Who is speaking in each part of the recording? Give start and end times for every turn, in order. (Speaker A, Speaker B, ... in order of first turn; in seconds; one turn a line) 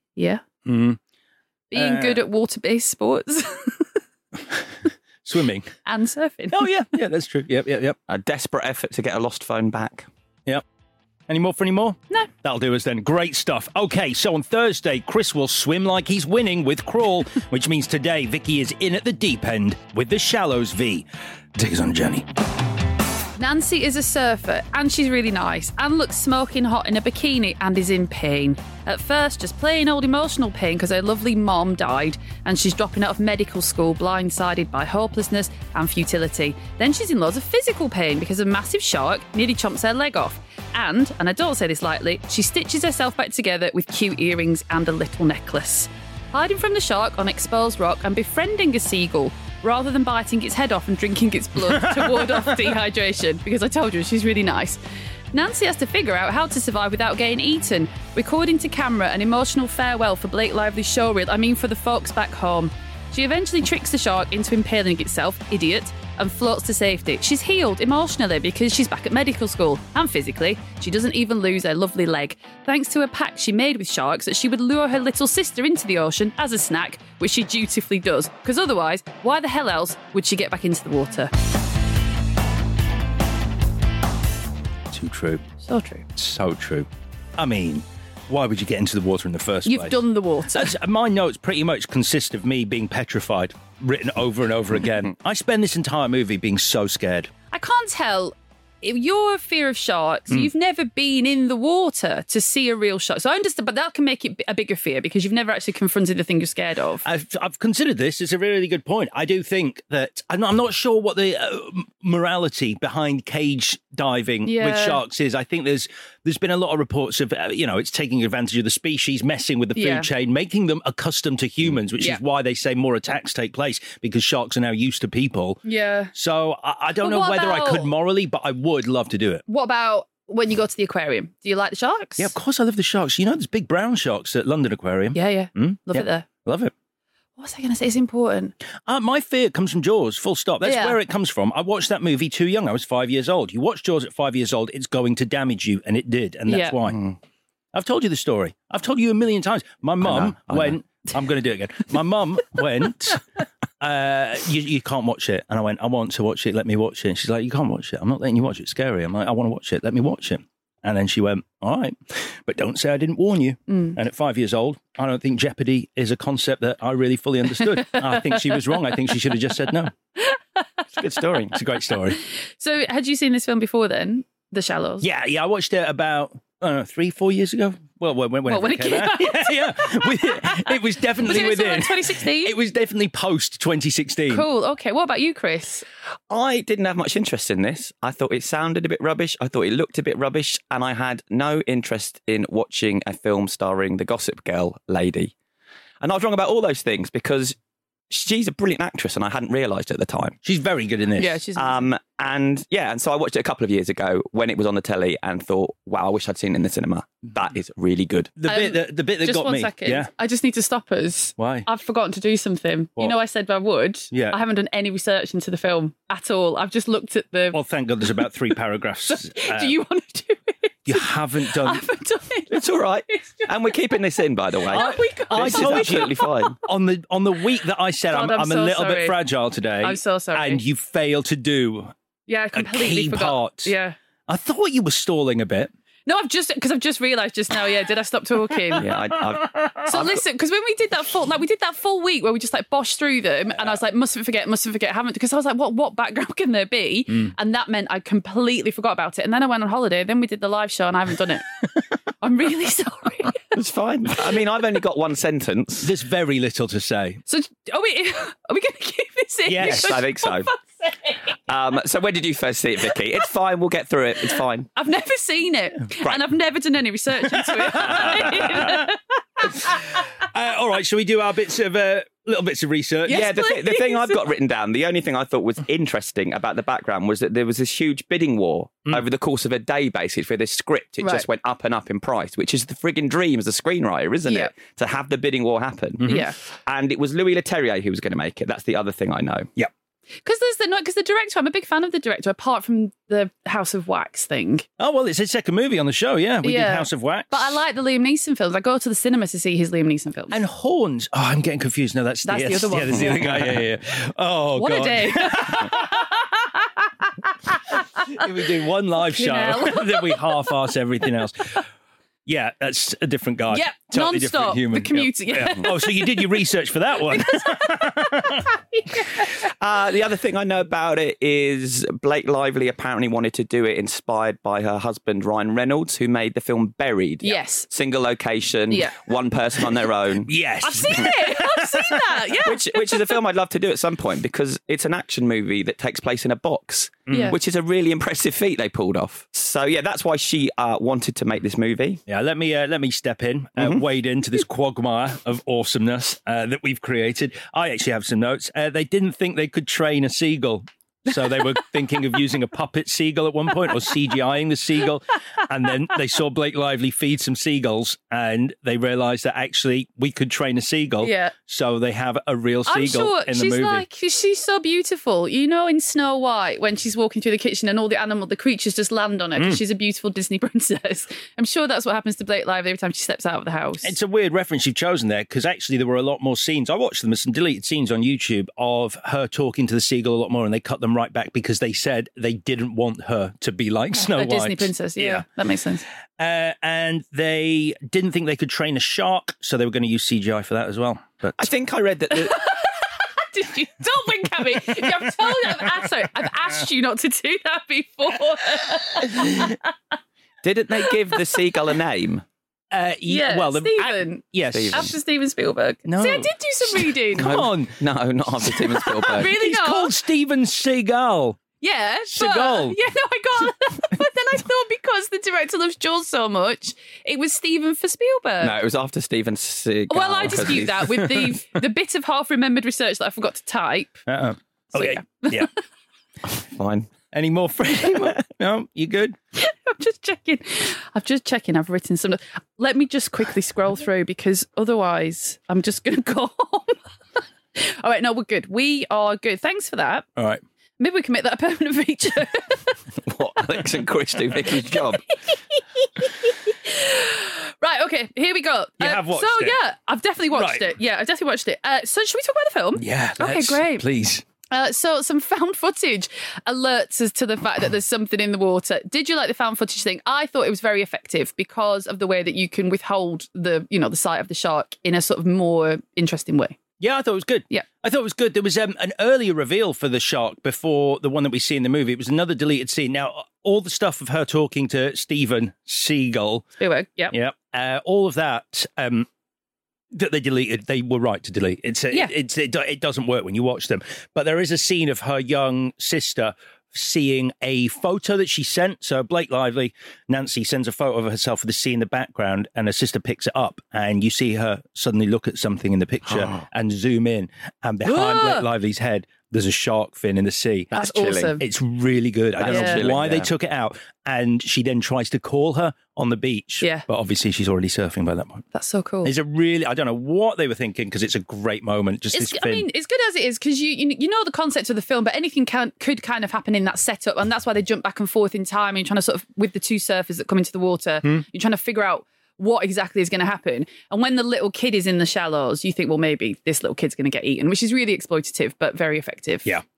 Speaker A: 0.2-0.4
Speaker B: 0.7-1.0
Speaker A: 1.7-3.9
Speaker B: 1.7-2.2
Speaker B: 5.2-5.7
Speaker A: 5.9-6.7
Speaker B: 6.5-8.0
Speaker C: 8.1-10.1
Speaker B: 11.3-22.2
Speaker A: 23.4-54.8
Speaker B: 51.6-52.8
Speaker A: 55.3-81.3
Speaker B: 84.9-85.4
Speaker A: 85.6-86.1
Speaker B: 86.2-97.3
Speaker A: 89.7-90.7
Speaker A: 97.5-107.1
Speaker B: 107.0-125.6
Speaker A: 114.5-115.0
Speaker A: 119.8-120.1
Speaker A: 125.7-126.1
Speaker B: 126.1-129.4
Speaker A: 127.0-127.9
Speaker A: 129.5-132.3
Speaker B: 132.2-136.7
Speaker A: 135.1-136.3
Speaker A: 137.4-138.5
Speaker B: 138.9-147.0
Speaker A: 140.6-141.0
Speaker A: 146.5-146.8
Speaker B: 147.7-153.2
Speaker C: 150.0-150.8
Speaker B: 153.8-169.9
Speaker A: 163.7-164.0
Speaker A: 167.8-168.2
Speaker C: 170.9-171.6
Speaker B: 171.5-172.2
Speaker A: 172.6-175.1
Speaker B: 175.0-184.5
Speaker A: 178.5-182.6
Speaker A: 184.3-185.8
Speaker C: 186.3-195.3
Speaker C: 196.0-197.6
Speaker C: 198.1-200.4
Speaker B: 200.4-201.4
Speaker A: 201.2-201.9
Speaker C: 201.6-208.3
Speaker B: 208.4-210.1
Speaker A: 208.5-217.6
Speaker B: 211.4-211.7
Speaker B: 214.1-214.4
Speaker B: 217.5-219.8
Speaker A: 218.2-218.6
Speaker A: 219.1-223.7
Speaker B: 220.9-221.8
Speaker C: 222.5-226.6
Speaker A: 224.7-226.5
Speaker B: 224.7-231.9
Speaker A: 228.1-229.2
Speaker A: 229.8-230.6
Speaker A: 232.3-234.0
Speaker B: 232.5-233.7
Speaker B: 234.3-235.7
Speaker A: 236.1-238.9
Speaker B: 238.8-239.9
Speaker C: 238.8-240.2
Speaker A: 239.9-251.5
Speaker A: 252.2-253.4
Speaker C: 253.6-255.9
Speaker B: 255.8-257.2
Speaker A: 257.3-261.2
Speaker B: 259.5-260.1
Speaker C: 259.6-260.5
Speaker C: 261.5-264.7
Speaker A: 264.8-270.0
Speaker B: 267.3-268.9
Speaker B: 269.6-273.2
Speaker A: 273.1-274.2
Speaker C: 273.1-286.1
Speaker A: 281.0-281.3
Speaker A: 284.3-284.5
Speaker B: 286.0-286.3
Speaker A: 286.0-286.4
Speaker C: 286.7-289.5
Speaker A: 290.2-294.7
Speaker B: 294.8-297.6
Speaker A: 296.4-300.4
Speaker B: 300.3-306.0
Speaker A: 302.2-303.6
Speaker A: 304.6-308.3
Speaker B: 308.1-311.6
Speaker A: 309.0-310.4
Speaker B: 312.3-318.5
Speaker A: 313.5-316.4
Speaker A: 317.1-319.3
Speaker C: 319.6-330.3
Speaker A: 327.2-327.7
Speaker A: 328.7-329.0
Speaker B: 330.2-332.2
Speaker A: 330.6-333.2
Speaker C: 332.4-342.0
Speaker B: 337.1-337.4
Speaker A: 337.1-337.4
Speaker B: 342.1-363.9
Speaker A: 351.4-351.6
Speaker A: 361.0-361.3
Speaker A: 362.7-373.9
Speaker B: 369.4-369.6
Speaker B: 373.8-385.2
Speaker A: 384.0-385.8
Speaker B: 386.2-391.5
Speaker C: 391.4-392.4
Speaker A: 392.1-399.7
Speaker B: 394.8-395.8
Speaker B: 399.1-399.5
Speaker C: 400.4-402.2
Speaker B: 402.7-404.9
Speaker A: 403.1-407.4
Speaker C: 404.5-404.9
Speaker B: 405.9-407.8
Speaker C: 407.2-409.3
Speaker A: 409.0-409.9
Speaker B: 409.1-411.4
Speaker A: 411.6-418.6
Speaker B: 412.1-412.8
Speaker C: 418.4-420.9
Speaker A: 419.9-424.1
Speaker B: 420.4-421.4
Speaker B: 424.1-425.5
Speaker A: 424.7-425.5
Speaker C: 426.5-426.9
Speaker B: 427.1-429.2
Speaker A: 429.4-436.8
Speaker A: 437.6-440.1
Speaker B: 440.2-440.4
Speaker A: 440.8-442.8
Speaker C: 443.1-445.0
Speaker A: 444.7-453.9
Speaker B: 448.8-449.6
Speaker B: 450.3-450.7
Speaker B: 452.8-454.2
Speaker A: 454.5-466.6
Speaker B: 466.8-476.5
Speaker A: 476.6-477.1
Speaker B: 477.1-479.1
Speaker B: 479.9-500.7
Speaker A: 497.8-498.5
Speaker C: 500.7-501.4
Speaker A: 500.7-501.4
Speaker B: 501.4-508.4
Speaker C: 502.4-503.3
Speaker A: 502.5-502.9
Speaker A: 506.6-506.9
Speaker A: 508.5-509.1
Speaker B: 509.0-512.7
Speaker A: 512.1-529.5